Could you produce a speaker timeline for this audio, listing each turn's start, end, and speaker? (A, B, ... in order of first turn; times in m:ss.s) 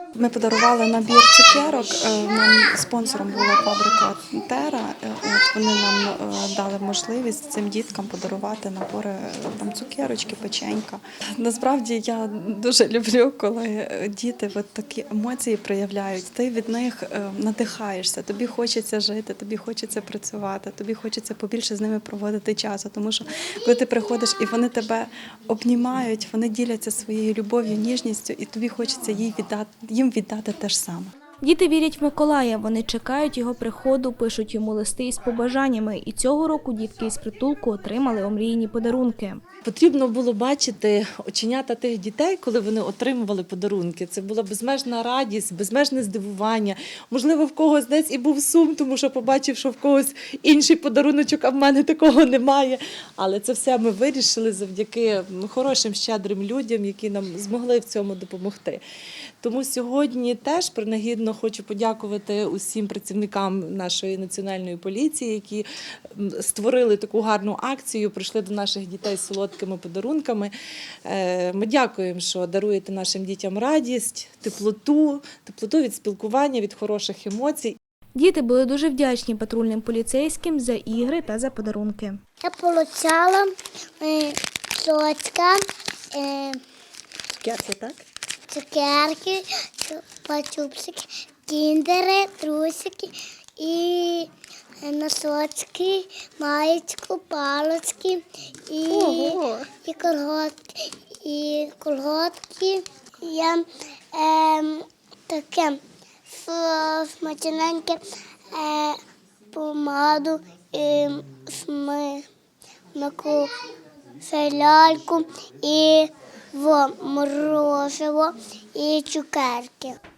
0:00.2-0:31.1 A
0:31.4-0:39.4 B
0:39.6-0:58.8 C
0:59.4-1:10.5 C
1:11.1-1:17.8 C
1:18.2-1:22.2 B
1:22.4-1:23.5 D
1:24.0-1:25.6 D
1:26.1-1:26.6 D
1:27.4-1:28.0 C
1:28.5-1:34.3 D
1:34.8-1:43.6 D
1:38.9-1:39.3 C
1:44.1-1:48.0 D
1:48.5-1:49.0 D
1:49.5-1:52.2 D
1:53.0-1:53.5 D
1:54.2-2:00.0 D